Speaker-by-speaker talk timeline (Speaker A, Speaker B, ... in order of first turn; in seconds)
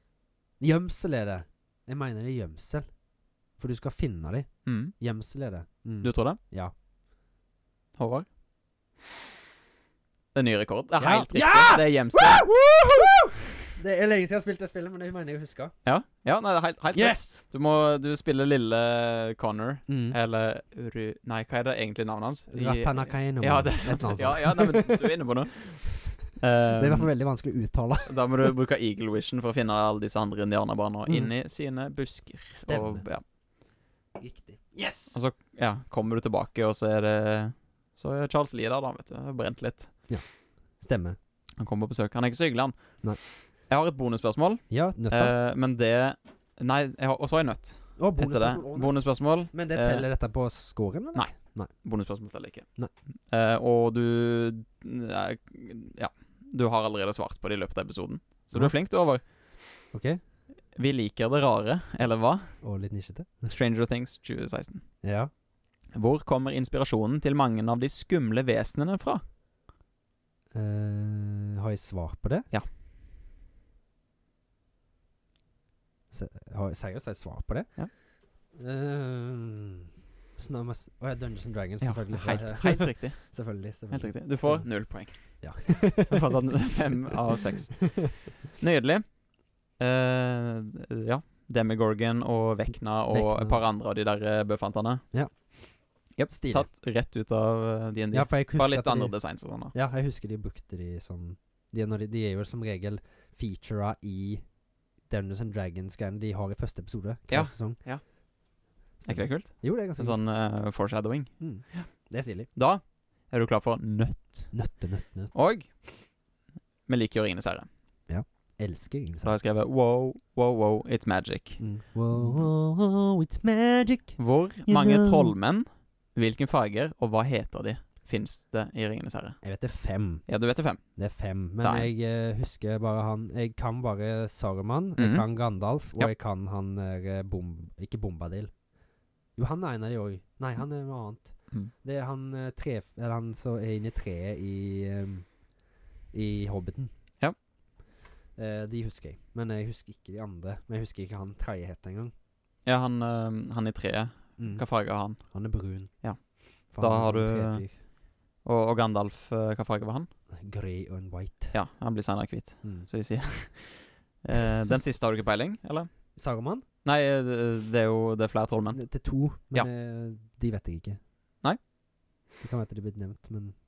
Speaker A: 0.6-2.9, 3.6-6.7, 11.0-13.2, 13.8-15.7, 16.9-17.4, 19.9-20.2, 22.5-25.2, 26.8-28.3, 31.1-31.3, 32.6-33.3, 34.2-35.2, 40.1-41.2, 44.7-45.3, 48.0-51.7, 59.9-60.2, 62.6-63.5, 65.0-65.3, 70.5-72.5, 76.1-77.8, 78.5-86.3, 93.1-93.6, 96.3-96.7, 98.1-104.5, 105.1-107.8, 109.0-110.2, 111.4-112.5, 114.5-115.3, 118.1-119.3, 121.6-125.3, 129.4-130.2, 131.0-138.5, 139.4-145.3, 146.1-146.9, 148.4-152.1, 154.4-154.7, 155.2-155.9, 156.7-157.8, 160.4-161.6, 166.2-166.6, 168.7-171.0, 172.4-173.6
Speaker B: 4.7-5.0, 6.0-6.4, 8.0-8.3, 10.3-13.0, 15.8-27.1, 28.1-33.2, 35.1-40.1, 41.6-50.1, 51.1-52.7, 53.3-59.2, 60.8-62.6, 63.5-64.8, 65.9-69.2, 81.8-89.1, 89.8-95.0, 96.2-99.7, 107.3-108.0, 109.1-111.9, 112.5-114.6, 115.3-116.1, 116.9-117.7, 119.2-121.6, 122.1-122.4, 124.2-129.4, 130.3-130.8, 131.6-131.9, 135.0-136.1, 152.7-155.3, 156.0-157.7, 158.4-160.1, 161.5-165.9, 166.8-168.8